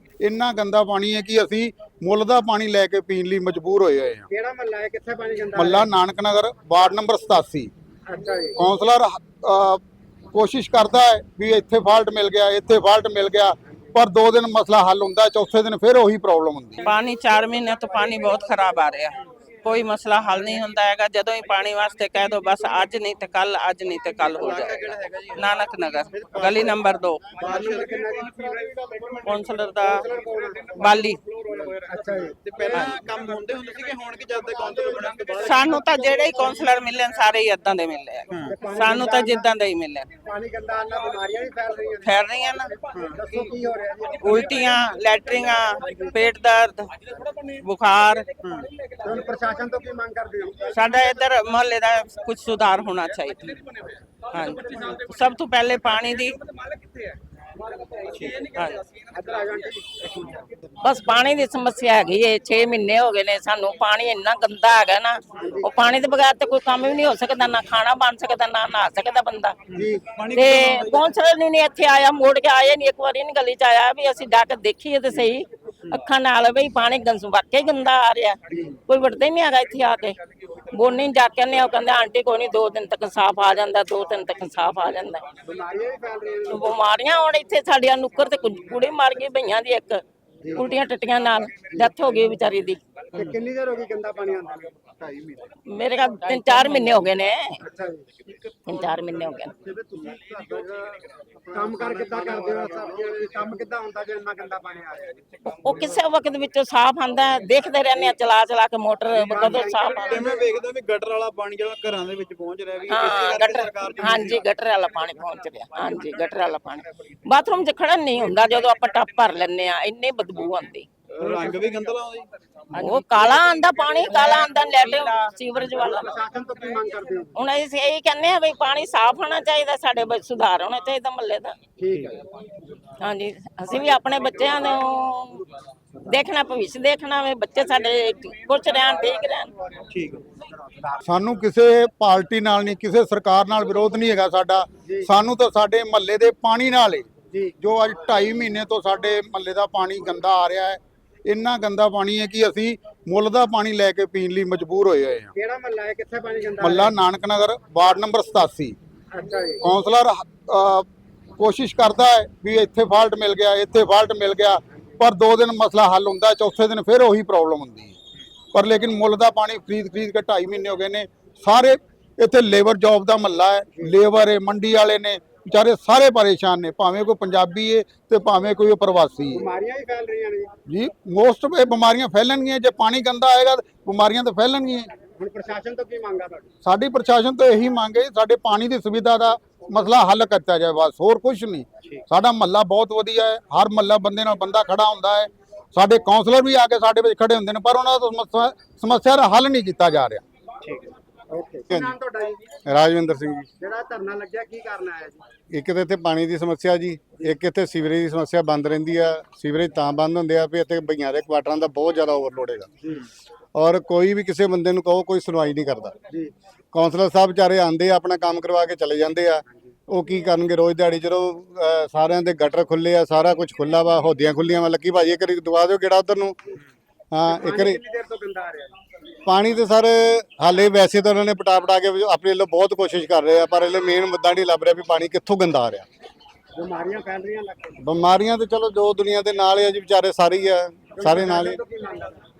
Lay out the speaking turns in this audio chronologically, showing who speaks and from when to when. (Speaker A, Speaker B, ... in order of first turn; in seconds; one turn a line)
Speaker A: 0.2-4.3
Speaker B: 4.3-5.9
Speaker A: 5.5-7.7
Speaker B: 8.1-8.6
Speaker A: 8.6-9.8
Speaker A: 10.3-16.8
Speaker C: 16.8-27.4
Speaker D: 24.2-25.5
Speaker D: 26.1-26.8
Speaker D: 27.3-28.5
Speaker B: 27.4-28.8
Speaker C: 29.2-30.1
Speaker B: 29.9-31.0
Speaker C: 30.8-31.2
Speaker D: 31.5-36.6
Speaker B: 31.6-33.0
Speaker C: 35.4-40.1
Speaker D: 38.3-38.5
Speaker B: 38.5-39.5
Speaker B: 40.2-42.1
Speaker C: 42.0-42.8
Speaker D: 42.9-43.4
Speaker B: 43.1-44.8
Speaker C: 44.2-46.9
Speaker C: 47.6-48.3
Speaker D: 48.4-48.7
Speaker B: 49.0-50.8
Speaker C: 50.7-53.6
Speaker C: 54.3-56.4
Speaker B: 54.4-54.9
Speaker D: 58.1-58.5
Speaker C: 58.5-58.8
Speaker B: 59.1-60.5
Speaker E: 60.8-69.5
Speaker B: 65.4-65.7
Speaker D: 69.7-71.1
Speaker B: 69.7-70.0
Speaker E: 70.3-80.2
Speaker B: 78.5-78.8
Speaker E: 80.7-85.2
Speaker B: 85.4-86.7
Speaker E: 86.5-90.0
Speaker E: 90.5-92.8
Speaker B: 93.1-94.8
Speaker D: 95.0-95.5
Speaker E: 95.7-97.6
Speaker C: 96.2-97.0
Speaker B: 97.6-98.0
Speaker E: 98.7-99.5
Speaker B: 99.6-100.7
Speaker D: 99.9-103.6
Speaker B: 101.5-105.2
Speaker E: 105.5-110.2
Speaker D: 109.2-114.4
Speaker B: 109.2-110.3
Speaker E: 112.9-120.9
Speaker D: 121.1-123.0
Speaker E: 122.7-126.1
Speaker C: 123.9-125.2
Speaker B: 125.8-127.3
Speaker E: 127.3-131.6
Speaker B: 131.8-132.2
Speaker E: 133.0-135.4
Speaker E: 136.1-139.5
Speaker D: 139.9-140.2
Speaker B: 140.3-141.0
Speaker A: 141.0-155.3
Speaker B: 155.3-156.9
Speaker A: 156.6-158.8
Speaker B: 159.1-159.6
Speaker A: 159.6-160.9
Speaker A: 161.4-167.9
Speaker A: 168.5-179.5
Speaker B: 179.3-180.5
Speaker A: 180.7-185.0
Speaker B: 185.1-186.5
Speaker A: 186.6-200.2
Speaker B: 201.3-202.4
Speaker F: 202.7-203.5
Speaker B: 203.6-205.2
Speaker F: 205.5-212.7
Speaker F: 213.5-215.9
Speaker F: 216.7-226.4
Speaker F: 227.1-227.8
Speaker B: 227.2-228.7
Speaker F: 229.2-235.8
Speaker B: 236.5-237.8
Speaker F: 237.8-241.6
Speaker B: 241.0-242.2